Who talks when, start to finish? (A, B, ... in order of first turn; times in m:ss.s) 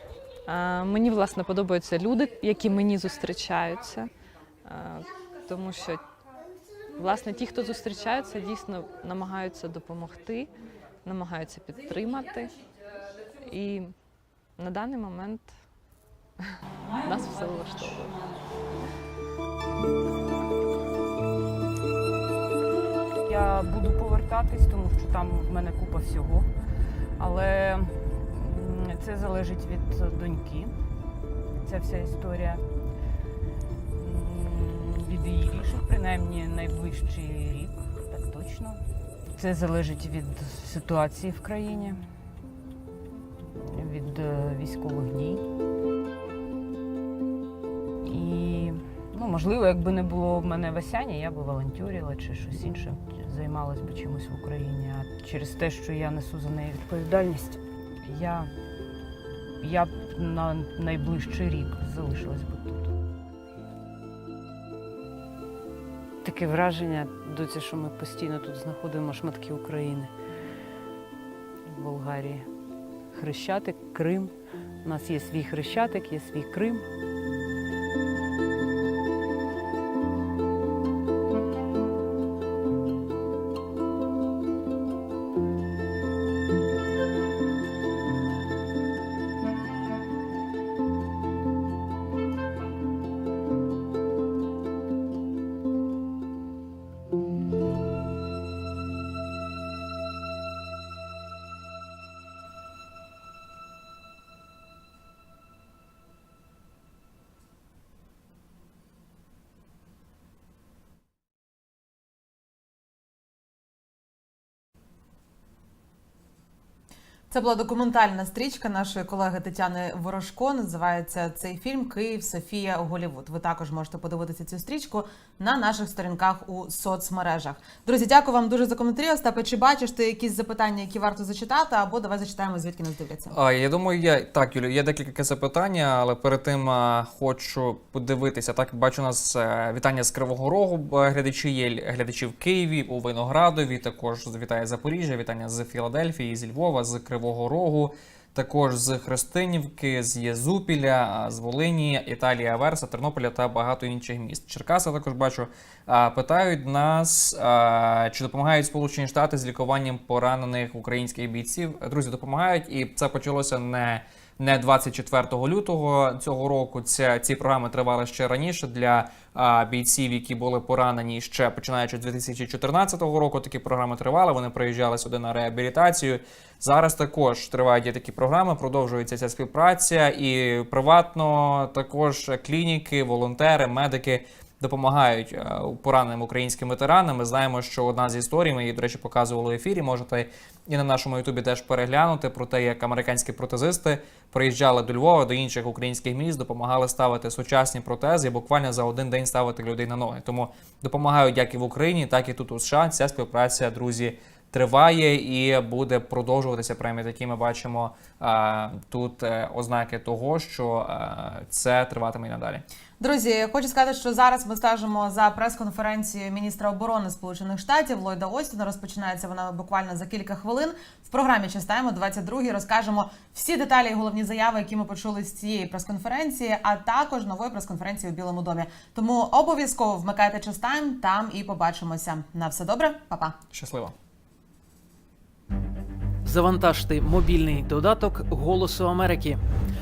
0:00.4-0:04.1 A
0:04.6-0:06.0 A
0:06.9-0:10.5 A
0:11.0-0:12.6 A
0:13.3-0:13.9 A
0:14.6-0:15.5 A
0:16.9-0:17.9 B
0:17.0-0:18.2 A
0:23.2-0:26.5 B
0:27.2-0:30.7 B
0:31.5-0:32.6 B
0:33.9-0:38.8 B
0:39.4-0:42.0 B
0:43.6-0:45.4 B
0:48.0-0:58.5 B
0:59.6-1:02.9 B
1:06.2-1:10.1 B
1:11.6-1:12.5 B
1:13.1-1:14.3 B
1:14.8-1:16.8 B
1:57.3-2:13.3 C
2:13.3-3:32.6 D
3:33.0-3:53.3 C
3:53.5-3:53.9 D
3:56.2-3:59.4 E